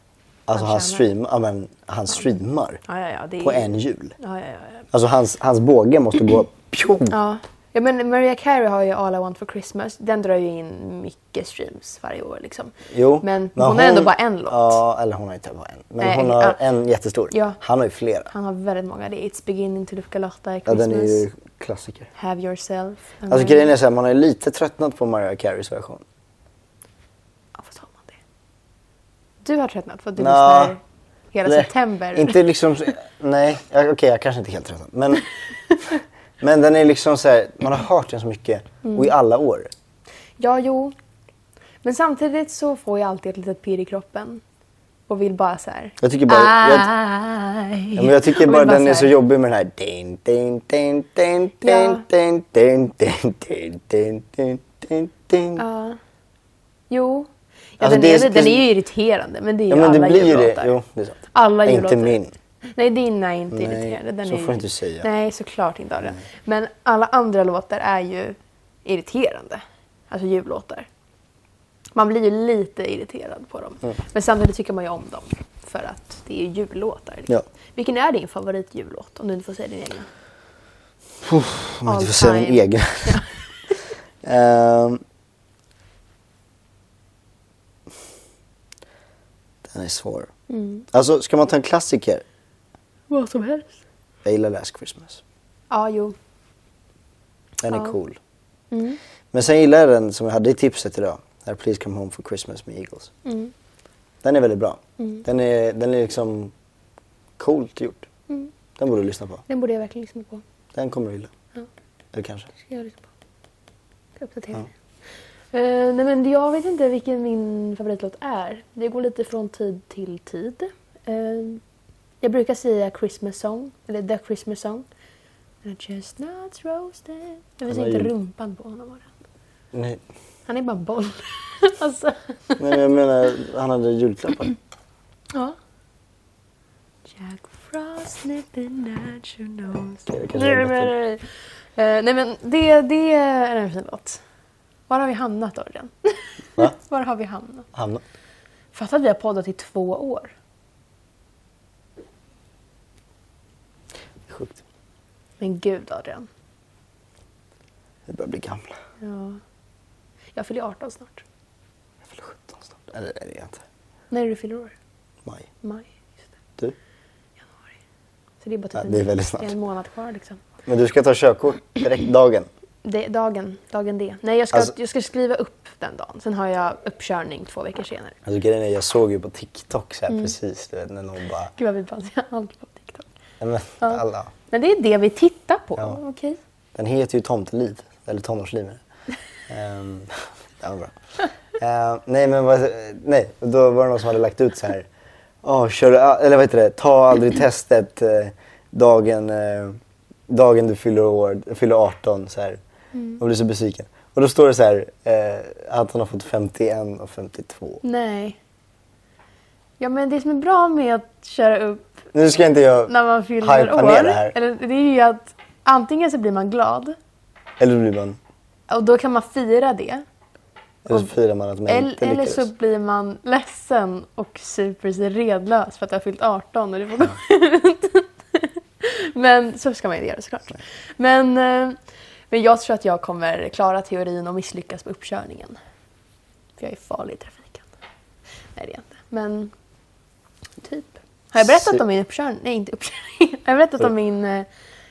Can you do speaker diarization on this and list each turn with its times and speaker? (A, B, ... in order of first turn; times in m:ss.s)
0:00.5-0:02.8 A
0:00.6-0:01.0 B
0:02.9-0:04.9 B
0:03.4-0:04.2 A
0:04.9-0:07.2 A
0:07.1-0:14.8 B
0:12.9-0:18.3 A
0:16.0-0:16.6 B
0:17.3-0:17.6 B
0:18.3-0:21.2 B
0:20.7-0:22.1 A
0:22.2-0:23.7 B
0:23.3-0:26.0 A
0:27.6-0:28.2 B
0:29.4-0:30.8 B
0:30.2-0:30.8 A
0:31.3-0:32.4 B
0:31.4-0:35.2 A
0:36.4-0:39.7 A
0:38.8-0:39.1 B
0:40.4-0:40.9 B
0:41.8-0:44.4 B
0:45.1-0:49.1 B
0:46.0-0:46.9 A
0:48.0-0:55.6 A
0:51.6-0:52.0 B
0:55.6-0:56.0 B
0:56.9-1:00.7 B
0:57.8-0:58.7 A
0:59.7-1:02.3 A
1:01.3-1:02.2 B
1:02.8-1:10.9 B
1:03.5-1:05.1 A
1:12.0-1:20.1 B
1:21.2-1:23.2 A
1:21.8-1:23.3 B
1:24.2-1:25.0 A
1:29.6-1:30.3 A
1:30.5-1:30.8 B
1:30.9-1:32.2 A
1:33.1-1:33.8 B
1:34.2-1:35.2 A
1:35.7-1:36.2 B
1:37.6-1:38.2 A
1:38.7-1:39.0 B
1:39.3-1:43.1 A
1:43.2-1:43.5 B
1:44.2-1:46.5 A
1:47.4-1:48.1 A
1:48.8-1:49.4 A
1:49.5-1:50.4 B
1:50.7-1:51.3 A
1:52.1-1:52.5 A
1:52.6-1:53.1 B
1:54.2-1:54.7 B
1:55.5-2:01.6 B
2:02.2-2:04.8 B
2:05.6-2:09.1 B
2:07.7-2:08.1 A
2:09.7-2:10.0 A
2:10.5-2:12.8 B
2:12.6-2:14.5 A
2:17.1-2:24.2 B
2:20.1-2:20.9 A
2:24.9-2:27.7 B
2:27.7-2:28.0 A
2:28.7-2:30.3 B
2:34.3-2:34.6 A
2:35.4-2:36.3 B
2:38.1-2:38.7 A
2:39.0-2:39.4 B
2:40.4-2:41.2 B
2:42.0-2:43.6 A
2:44.1-2:44.7 B
2:45.6-2:45.9 B
2:48.4-2:50.4 B
2:48.8-2:49.5 A
2:50.7-2:52.5 A
2:52.8-2:58.2 B
2:58.3-3:01.5 A
3:01.6-3:03.1 B
3:03.4-3:04.3 A
3:03.8-3:06.4 B
3:06.8-3:08.8 A
3:09.5-3:10.9 A
3:11.6-3:14.9 A
3:15.4-3:19.8 A
3:20.3-3:22.6 A
3:23.0-3:23.2 B
3:23.2-3:27.8 A
3:27.8-3:28.4 B
3:29.8-3:32.1 B
3:32.1-3:34.4 A
3:32.9-3:37.0 B
3:37.6-3:38.2 A
3:38.7-3:40.0 B
3:40.9-3:42.5 A
3:41.7-3:51.8 B
3:52.3-3:55.6 B
3:56.6-3:57.7 B
3:58.6-3:59.5 B
4:00.6-4:04.5 B
4:01.4-4:01.8 A